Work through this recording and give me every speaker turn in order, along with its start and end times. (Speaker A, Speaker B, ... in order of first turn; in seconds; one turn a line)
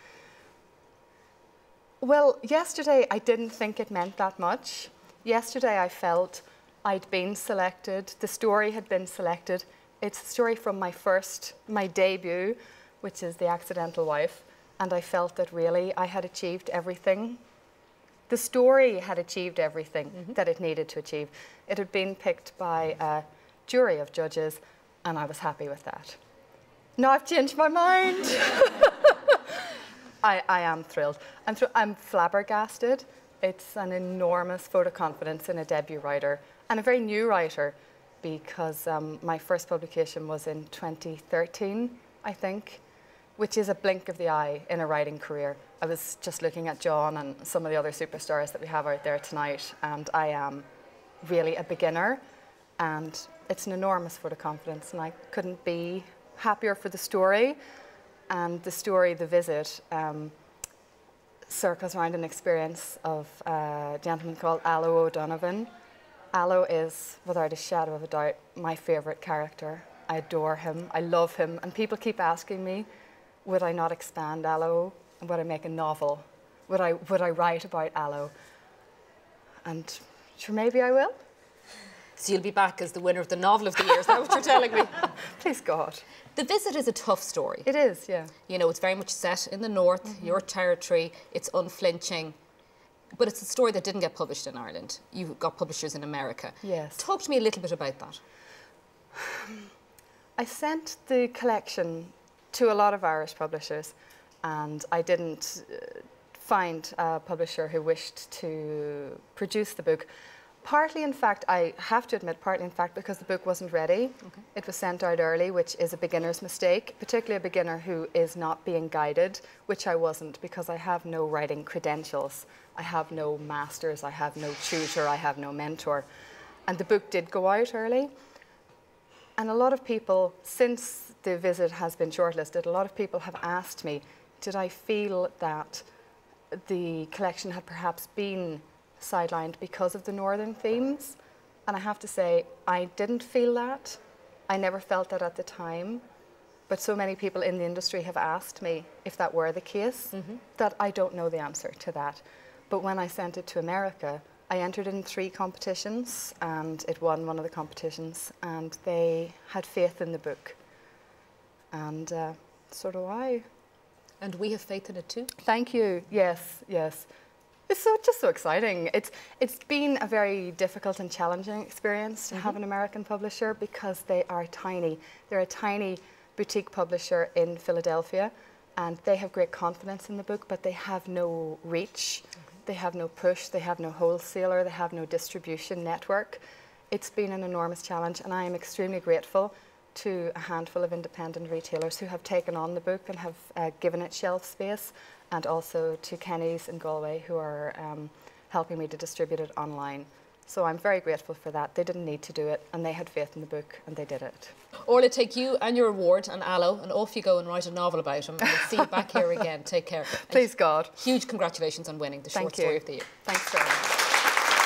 Speaker A: 2.0-17.4
Speaker A: 18.3-26.2
Speaker A: 27.0-29.1
Speaker A: 30.2-42.8
Speaker A: 43.4-50.6
Speaker A: 51.2-52.2
Speaker A: 52.8-57.6
Speaker A: 58.3-60.3
Speaker A: 61.5-65.7
Speaker A: 66.3-72.9
Speaker A: 73.4-78.3
Speaker A: 79.6-81.2
Speaker B: 82.2-85.1
Speaker A: 85.3-86.0
Speaker B: 86.3-87.7
Speaker A: 87.6-88.3
Speaker B: 88.5-92.4
Speaker B: 93.2-98.2
Speaker A: 96.6-97.0
Speaker A: 100.4-110.1
Speaker A: 110.6-126.0
Speaker A: 126.7-128.1
Speaker A: 129.4-135.9
Speaker A: 136.5-146.0
Speaker A: 146.7-160.6
Speaker A: 161.7-163.4
Speaker B: 164.2-165.3
Speaker A: 165.4-167.1
Speaker A: 167.7-204.5
Speaker B: 204.8-213.1
Speaker A: 210.3-211.0
Speaker A: 212.3-214.0